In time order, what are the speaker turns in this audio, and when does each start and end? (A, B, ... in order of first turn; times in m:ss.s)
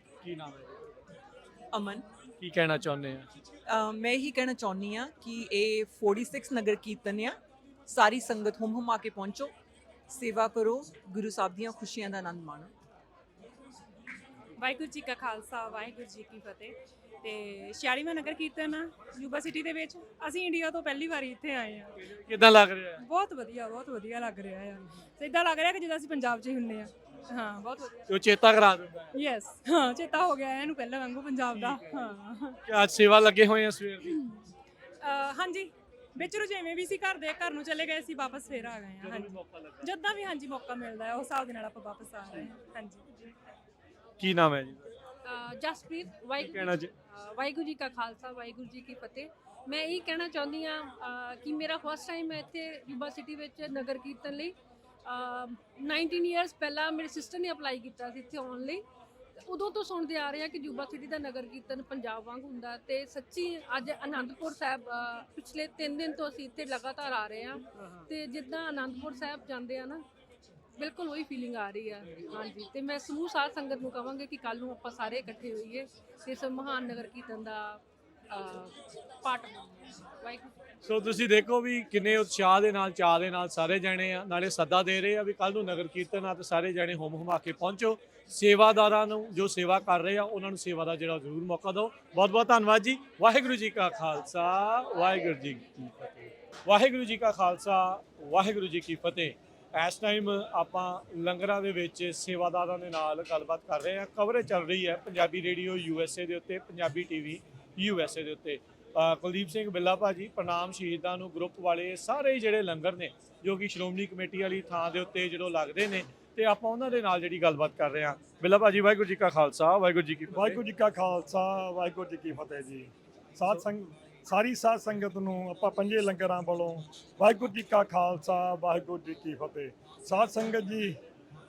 0:00.2-0:00.9 A
0:02.4-0:03.3 A
0:03.7-0:07.3 B
0:07.9-0:09.5 B
0:10.1-0:12.7 B
0:14.6-0:21.9 C
0:22.0-0:23.0 A
0:23.0-0:28.1 C
0:28.1-0:29.1 A
0:29.1-0:32.6 C
0:31.5-0:32.0 A
0:32.6-0:34.2 A
0:35.0-0:43.3 C
0:39.0-0:39.9 A
0:44.2-0:44.9 A
0:45.2-0:54.5 D
0:46.4-0:46.9 A
0:55.0-0:58.8 D
0:59.4-1:10.0 D
1:10.8-1:20.5 D
1:20.8-2:00.6 A
2:00.3-2:10.9 E